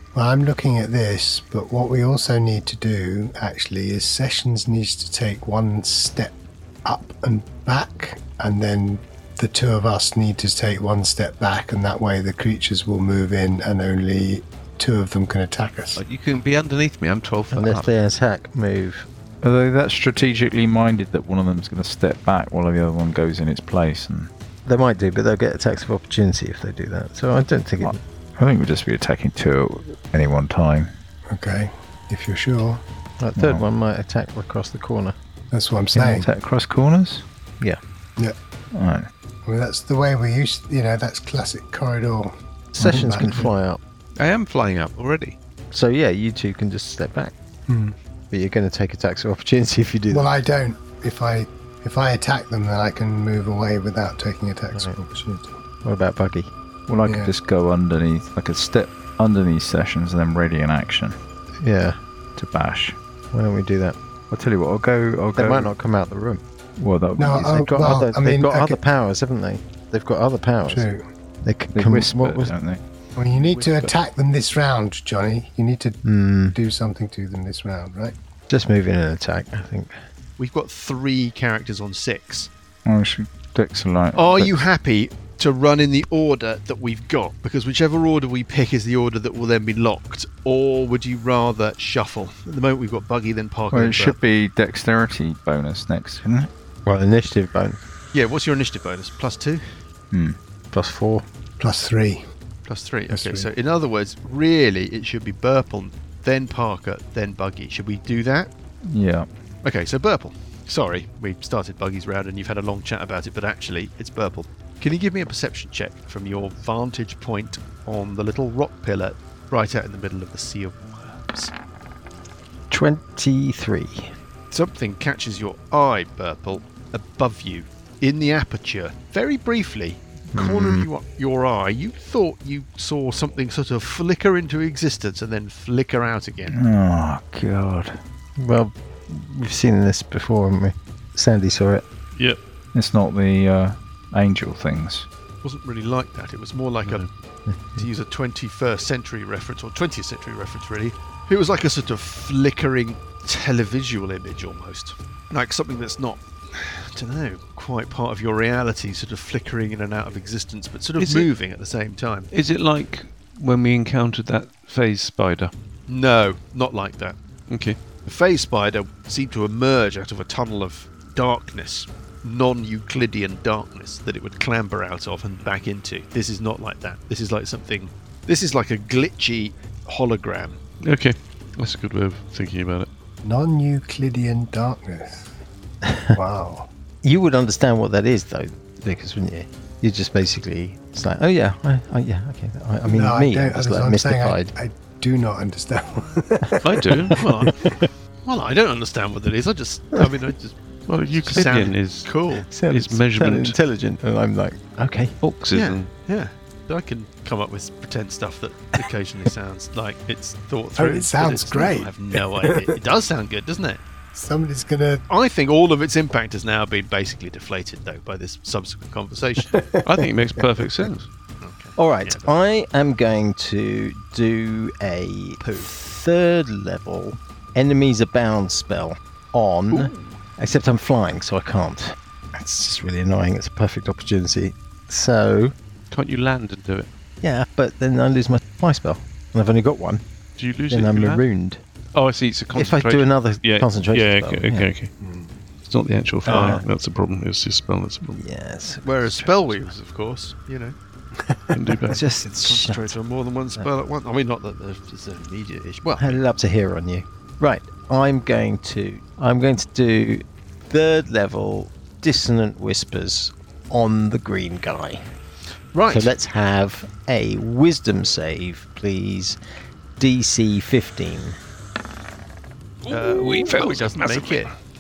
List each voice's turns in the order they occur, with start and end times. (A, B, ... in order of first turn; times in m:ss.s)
0:00.1-0:16.0 A
0:16.0-0:17.9 B
0:17.5-0:19.1 C
0:19.4-0:24.3 D
0:24.7-0:28.0 C
0:27.8-0:30.9 D
0:31.3-0:32.8 A
0:33.2-0:35.2 C
0:33.4-0:33.7 D
0:35.5-0:36.3 A
0:35.9-0:37.2 D
0:38.7-0:39.1 D
0:39.5-0:43.5 A
0:42.8-0:43.8 C
0:44.2-0:45.4 B
0:45.7-0:47.3 C
0:47.7-0:48.0 A
0:48.3-0:50.3 C
0:50.1-0:55.6 A
0:55.8-0:56.5 C
0:56.9-1:01.2 D
0:57.1-0:57.3 A
1:01.6-1:02.0 C
1:02.4-1:03.0 D
1:03.3-1:04.0 C
1:04.3-1:05.7 D
1:05.4-1:06.4 C
1:06.8-1:08.0 D
1:07.2-1:08.8 A
1:07.4-1:10.9 C
1:10.7-1:11.0 A
1:11.4-1:12.5 C
1:11.7-1:12.8 D
1:13.2-1:16.0 A
1:13.3-1:13.9 E
1:16.0-1:16.6 C
1:16.5-1:18.2 A
1:18.5-1:20.0 C
1:20.4-1:22.5 E
1:22.9-1:24.6 D
1:24.1-1:34.2 E
1:33.7-1:36.5 D
1:36.9-1:37.8 C
1:38.1-1:39.8 E
1:40.1-1:40.4 D
1:40.7-1:41.3 C
1:41.6-1:42.2 A
1:42.6-1:48.5 E
1:43.1-1:43.5 A
1:48.9-1:49.3 D
1:49.6-2:01.5 E
2:02.7-2:04.1 C
2:04.5-2:16.6 E
2:10.3-2:10.9 C
2:16.5-2:18.0 D
2:18.4-2:21.8 C
2:22.7-2:25.1 D
2:25.4-2:27.1 E
2:26.8-2:27.1 F
2:27.5-2:27.9 C
2:27.8-2:42.3 E
2:41.0-2:41.3 F
2:42.3-2:45.5 F
2:45.9-2:47.2 E
2:47.5-2:47.8 F
2:48.0-3:00.6 E
3:00.8-3:02.9 F
3:03.2-3:05.4 A
3:05.8-3:06.2 C
3:06.1-3:06.7 A
3:07.0-3:14.5 C
3:12.9-3:17.1 A
3:16.6-3:22.5 E
3:16.7-3:17.2 F
3:20.9-3:23.6 F
3:22.5-3:25.2 C
3:25.2-3:25.9 F
3:25.5-3:33.8 E
3:30.8-3:32.7 A
3:34.1-3:35.0 A
3:35.1-3:39.6 E
3:39.5-3:40.8 A
3:39.8-3:41.1 F
3:41.4-3:42.3 E
3:41.8-3:55.5 C
3:45.4-3:45.8 E
3:49.7-3:50.2 E
3:55.9-3:56.9 F
3:57.2-4:00.0 C
4:00.4-4:01.2 F
4:00.7-4:01.6 C
4:01.9-4:04.9 F
4:02.5-4:04.7 C
4:05.0-4:05.3 A
4:05.6-4:08.2 F
4:06.3-4:06.7 C
4:06.3-4:06.6 E
4:08.1-4:09.7 C
4:08.8-4:10.8 E
4:11.5-4:12.1 F
4:11.9-4:12.9 C
4:12.2-4:16.2 E
4:16.0-4:25.1 C
4:25.7-4:26.2 E
4:25.9-4:29.4 C
4:30.0-4:31.4 C
4:32.9-4:34.5 F
4:32.9-4:34.5 E